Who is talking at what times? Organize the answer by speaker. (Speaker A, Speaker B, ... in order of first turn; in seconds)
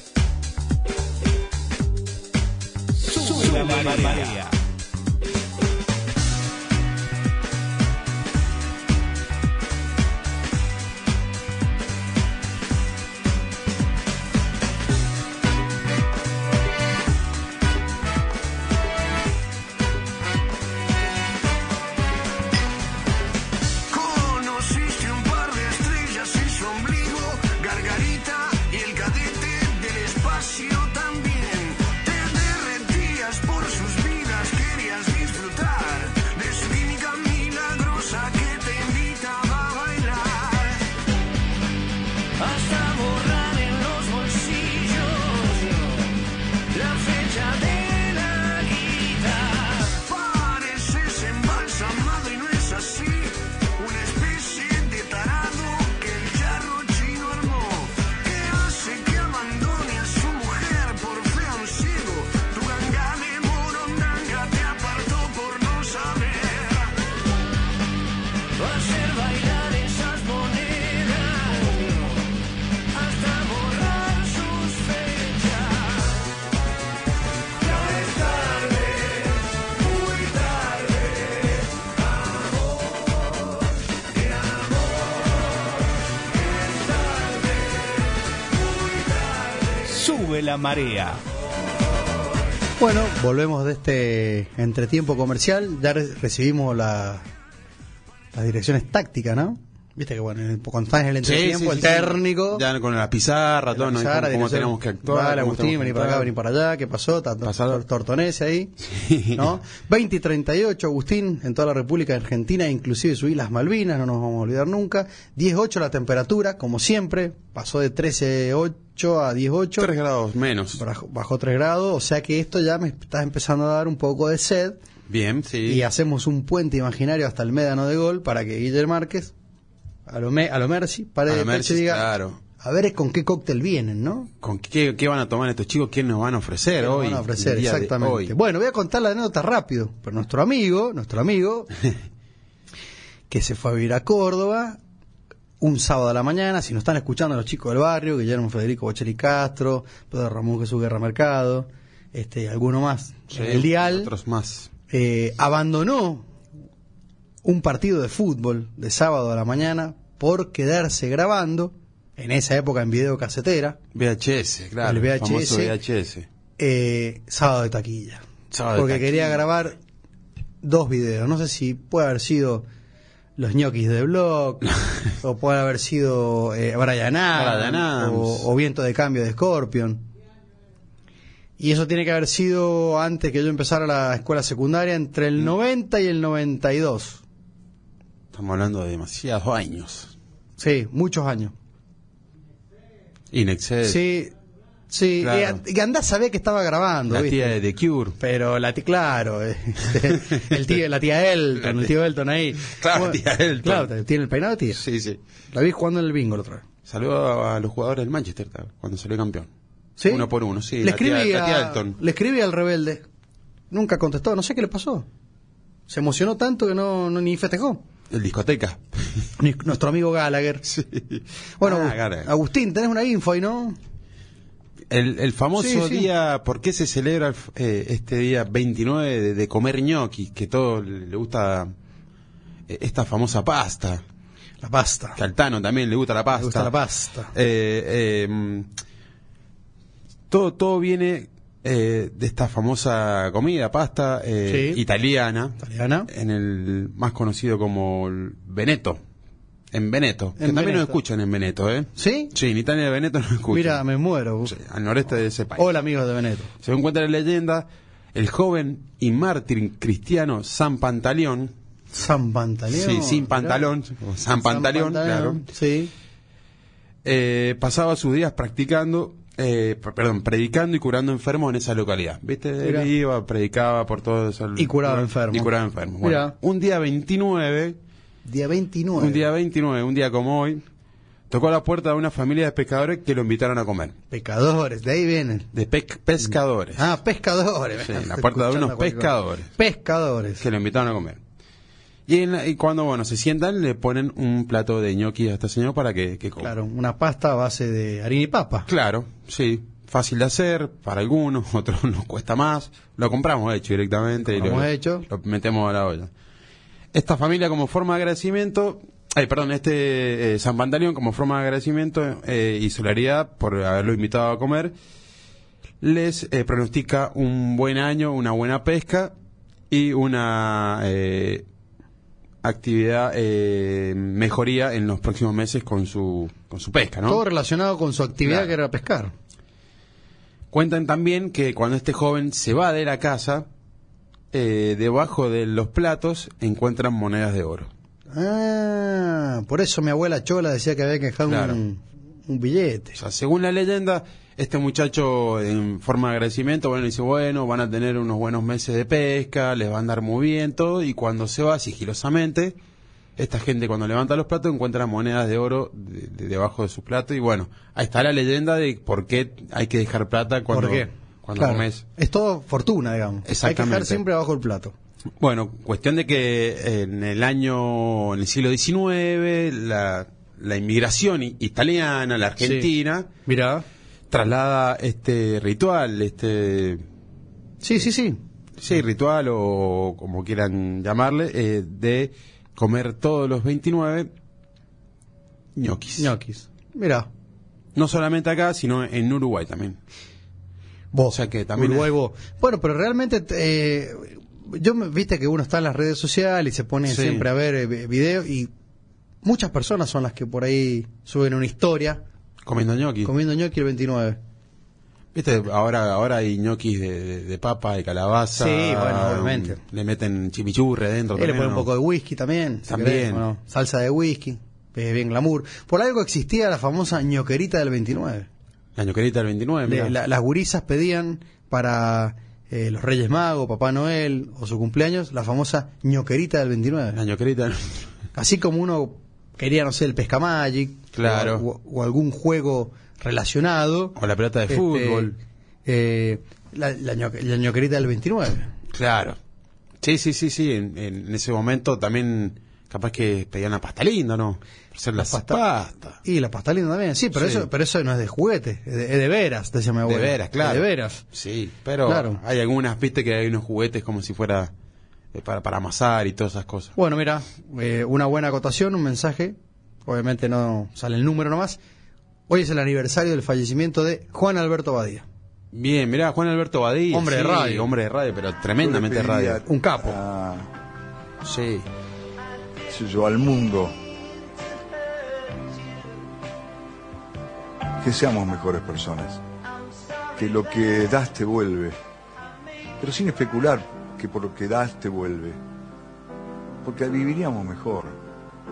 Speaker A: 3.0-4.6, 89.8-91.2
Speaker B: 23.9-40.8, 42.4-46.0, 46.7-67.0, 68.6-72.1, 72.9-76.1, 77.6-79.1, 79.9-81.0
Speaker C: 92.8-97.3, 98.3-102.6, 103.7-108.7, 109.3-119.9, 120.8-124.8, 125.6-129.3, 130.1-134.3, 136.8-141.7, 143.3-144.8, 145.6-154.1, 154.9-156.3, 157.4-163.8, 164.8-165.8, 166.6-168.2, 168.8-169.8, 170.6-172.7, 173.4-180.0, 181.6-187.2, 190.6-191.5, 193.8-194.3, 194.9-197.6, 198.2-204.8, 205.5-206.6, 210.0-210.3, 210.8-213.0, 213.7-215.1, 215.9-217.8, 219.4-220.6, 221.6-223.8, 225.6-226.1, 234.6-235.2, 236.3-237.3, 244.4-244.8, 245.6-246.1, 250.4-251.0, 251.9-252.3, 253.5-254.6, 255.6-256.5, 261.9-263.6, 264.4-265.9, 272.6-272.9, 274.6-276.4, 278.2-279.3, 284.1-285.5, 286.2-290.4, 296.4-298.7, 304.2-305.1, 327.1-329.1, 338.1-343.0, 360.5-364.7, 372.4-372.7, 373.3-373.6, 377.6-378.2, 386.0-387.1, 390.9-398.5, 399.2-402.0, 403.1-404.2, 408.3-409.6, 411.2-418.3, 419.7-427.0, 428.1-433.9, 434.5-438.5, 445.0-445.4, 446.0-451.0, 451.9-452.2, 456.8-461.6, 462.3-465.1, 466.9-467.7, 469.4-470.0
Speaker D: 101.2-106.3, 107.4-107.8, 108.8-109.5, 119.8-120.8, 125.1-125.8, 131.3-132.4, 134.4-138.3, 153.3-154.7, 163.9-166.3, 168.5-169.4, 177.3-178.4, 188.3-190.1, 193.3-194.0, 195.2-195.6, 197.1-198.2, 200.0-200.6, 201.6-201.9, 202.6-203.9, 204.7-205.2, 206.9-209.5, 210.1-212.0, 218.1-219.3, 220.6-222.3, 224.9-231.7, 232.7-234.0, 235.2-236.8, 237.3-238.7, 240.3-249.0, 249.7-253.8, 254.4-255.7, 256.6-261.5, 262.7-265.4, 267.0-277.8, 278.9-280.6, 281.3-283.9, 285.5-286.9, 287.8-289.5, 290.4-291.2, 292.1-296.5, 298.7-306.1, 306.9-314.7, 315.8-319.1, 319.7-321.4, 322.4-327.2, 328.2-328.5, 330.5-333.5, 334.3-337.7, 341.3-341.6, 342.9-352.6, 353.2-361.8, 363.2-364.0, 365.2-373.1, 374.1-376.8, 378.6-384.1, 385.6-386.1, 387.7-389.8, 391.1-391.9, 396.9-397.3, 402.4-403.1, 405.1-411.7, 412.7-413.2, 418.8-419.9, 426.9-427.9, 430.9-431.4, 433.9-435.1, 438.7-439.2, 439.8-446.0, 447.1-447.5, 449.8-454.5, 455.1-456.7, 465.5-469.4, 471.2-471.7
Speaker E: 468.6-470.5, 472.7-473.8, 477.8-479.2, 480.2-481.8, 482.8-485.4, 486.6-488.0